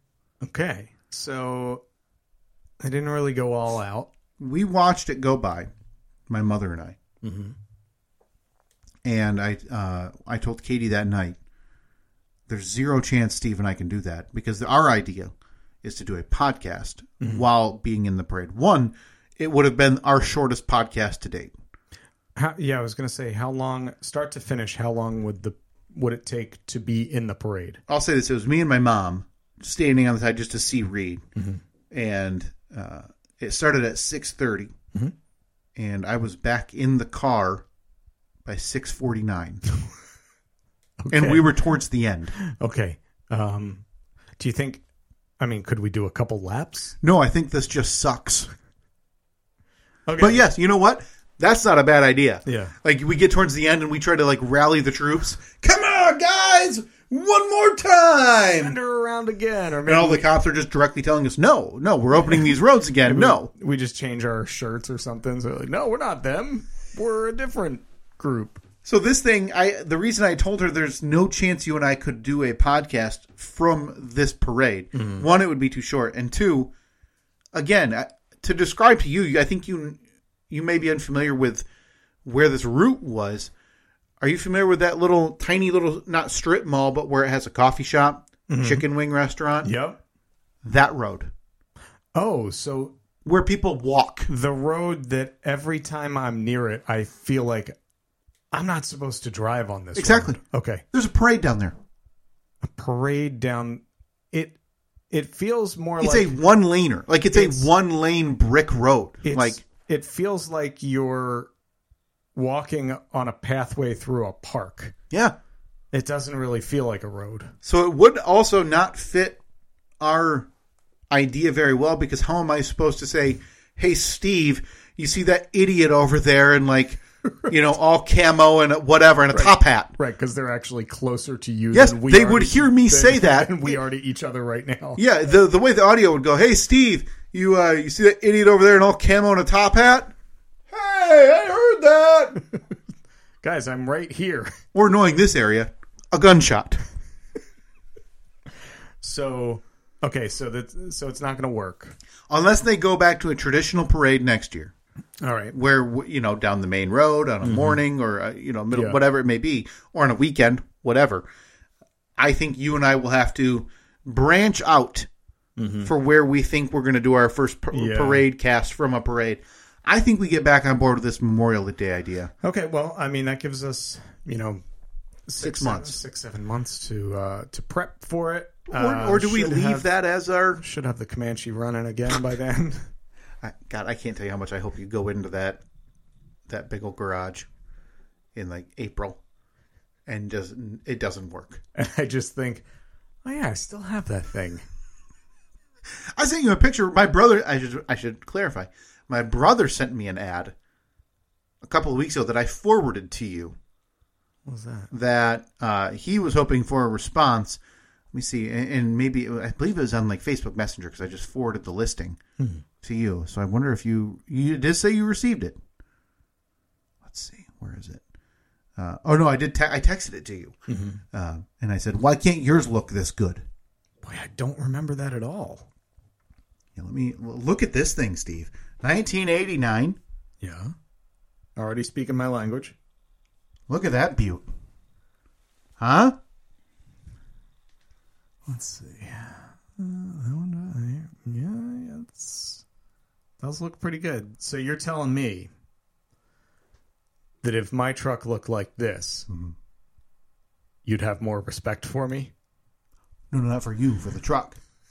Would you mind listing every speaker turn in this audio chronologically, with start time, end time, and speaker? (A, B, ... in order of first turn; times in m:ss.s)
0:00.4-0:01.8 A
0:02.8-0:04.1 A
0:04.4-0:05.7 B
0:06.3-0:07.0 B
0:07.2-0:07.6 A
0:09.0-0:11.4 B
0:12.5-0:21.5 B
0:22.4-0:27.8 A
0:27.9-0:31.2 B
0:31.4-0:31.6 A
0:31.9-0:34.7 B
0:35.8-0:37.6 B
0:38.4-0:39.6 B
0:41.0-0:41.5 A
0:41.1-0:42.4 B
0:42.4-0:43.8 A
0:44.4-0:44.8 A
0:45.4-0:47.0 A
0:47.0-0:48.5 B
0:50.1-0:50.4 A
0:50.2-0:58.8 B
0:52.5-0:52.7 A
0:58.6-1:00.3 A
0:59.8-1:03.5 B
1:03.0-1:08.6 A
1:08.8-1:16.7 B
1:14.9-1:15.2 A
1:17.5-1:20.0 B
1:20.5-1:21.6 B
1:22.2-1:23.5 B
1:24.2-1:29.7 B
1:28.5-1:28.8 A
1:29.6-1:30.0 A
1:30.6-1:31.3 B
1:32.1-1:32.9 A
1:33.2-1:34.3 B
1:34.3-1:37.8 A
1:38.5-1:40.8 A
1:40.0-1:40.4 B
1:40.9-1:41.8 B
1:42.6-1:44.6 A
1:45.1-1:46.4 A
1:46.0-1:49.6 B
1:47.3-1:47.7 A
1:49.2-1:51.5 A
1:52.4-1:54.9 A
1:55.1-1:55.4 B
1:55.9-1:57.5 A
1:57.6-1:59.4 B
2:00.0-2:00.5 B
2:01.1-2:09.9 B
2:09.3-2:15.0 A
2:11.7-2:13.8 B
2:15.0-2:20.1 B
2:20.7-2:22.4 B
2:23.4-2:24.5 A
2:24.7-2:26.8 B
2:29.0-2:32.0 A
2:32.3-2:34.7 B
2:35.2-2:35.6 A
2:35.5-2:41.2 B
2:37.4-2:37.8 A
2:38.7-2:39.0 A
2:42.2-2:45.1 B
2:45.6-2:45.9 A
2:45.8-2:52.3 B
2:47.7-2:48.2 A
2:52.4-2:54.6 A
2:55.3-2:59.9 A
2:55.4-2:56.0 B
2:58.7-3:00.6 B
3:00.6-3:02.9 A
3:03.4-3:05.6 B
3:06.5-3:07.5 B
3:08.4-3:09.2 B
3:10.1-3:11.6 B
3:11.8-3:12.6 A
3:13.2-3:14.6 A
3:16.1-3:20.5 B
3:21.6-3:23.6 B
3:24.5-3:24.9 A
3:24.9-3:27.6 B
3:28.1-3:32.2 B
3:32.4-3:32.6 A
3:32.8-3:35.6 B
3:37.0-3:38.0 B
3:38.8-3:40.6 B
3:40.7-3:41.0 A
3:41.1-3:43.4 B
3:44.0-3:45.6 A
3:46.8-3:50.0 B
3:50.4-3:50.7 A
3:51.6-3:52.8 A
3:53.7-3:54.5 B
3:55.8-3:56.2 B
3:58.5-4:02.6 A
4:03.4-4:05.5 A
4:07.4-4:09.3 A
4:09.3-4:09.5 B
4:10.8-4:12.3 A
4:13.3-4:14.6 B